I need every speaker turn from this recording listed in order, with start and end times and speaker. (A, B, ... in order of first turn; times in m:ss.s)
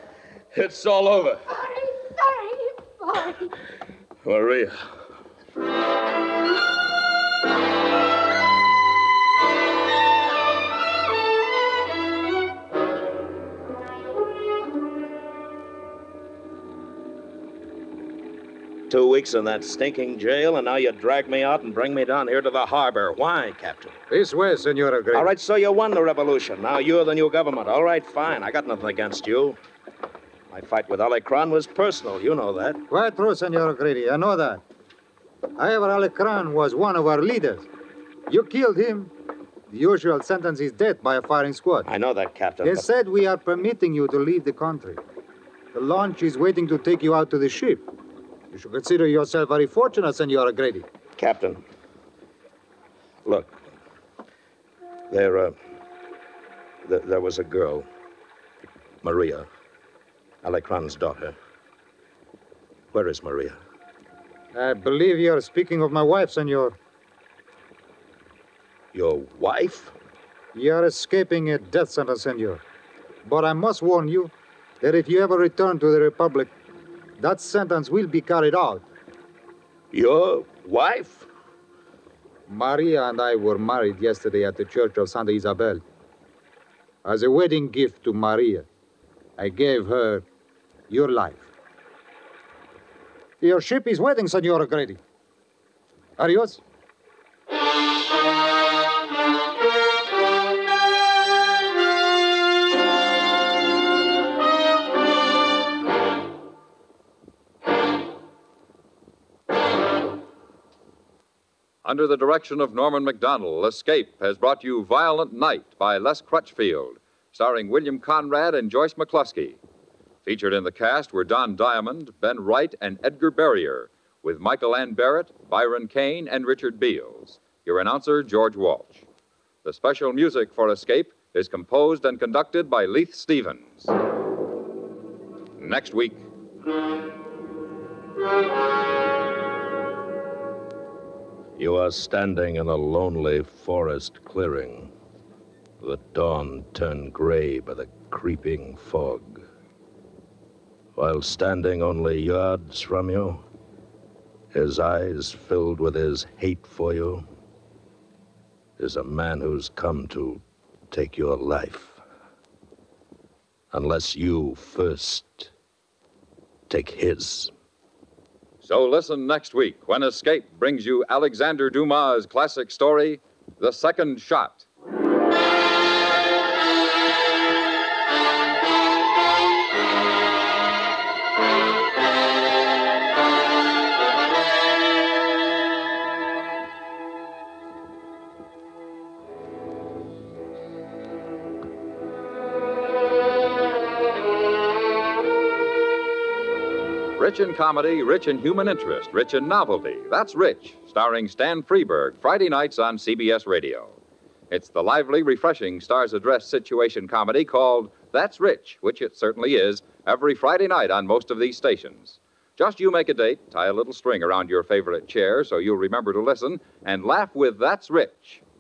0:00.5-0:01.4 A
0:01.5-0:03.5 B
0:04.2-0:04.8 A
0:18.9-0:24.0 A
0:24.1-0:25.3 C
0:25.1-0:29.6 A
0:30.5-0:32.8 A
0:32.9-0:34.6 C
0:35.6-0:37.7 C
0:38.3-0:39.1 C
0:39.7-0:41.9 C
0:41.8-0:42.9 A
0:42.6-0:45.0 C
0:45.7-0:47.8 C
0:48.5-0:50.8 C
0:51.2-0:51.6 A
0:53.2-0:53.6 A
0:55.1-0:55.5 A
0:56.8-0:57.9 A
0:59.0-0:59.5 A
1:00.4-1:01.4 A
1:02.9-1:03.6 A
1:04.5-1:06.8 C
1:08.9-1:09.9 A
1:10.5-1:12.6 C
1:13.2-1:16.5 C
1:17.2-1:18.8 C
1:19.9-1:21.3 A
1:22.5-1:25.8 C
1:27.0-1:28.7 C
1:29.4-1:30.2 C
1:30.9-1:31.5 C
1:33.4-1:35.0 C
1:36.2-1:36.6 C
1:51.8-1:59.6 D
2:00.2-2:09.0 D
2:09.6-2:13.9 D
2:15.6-2:16.2 D
2:21.6-2:24.9 A
2:25.8-2:29.4 A
2:31.0-2:33.4 A
2:34.5-2:37.2 A
2:38.8-2:42.0 A
2:43.7-2:45.5 A
2:46.7-2:47.5 A
2:48.6-2:54.6 D
3:17.2-3:24.0 D
3:24.5-3:38.4 D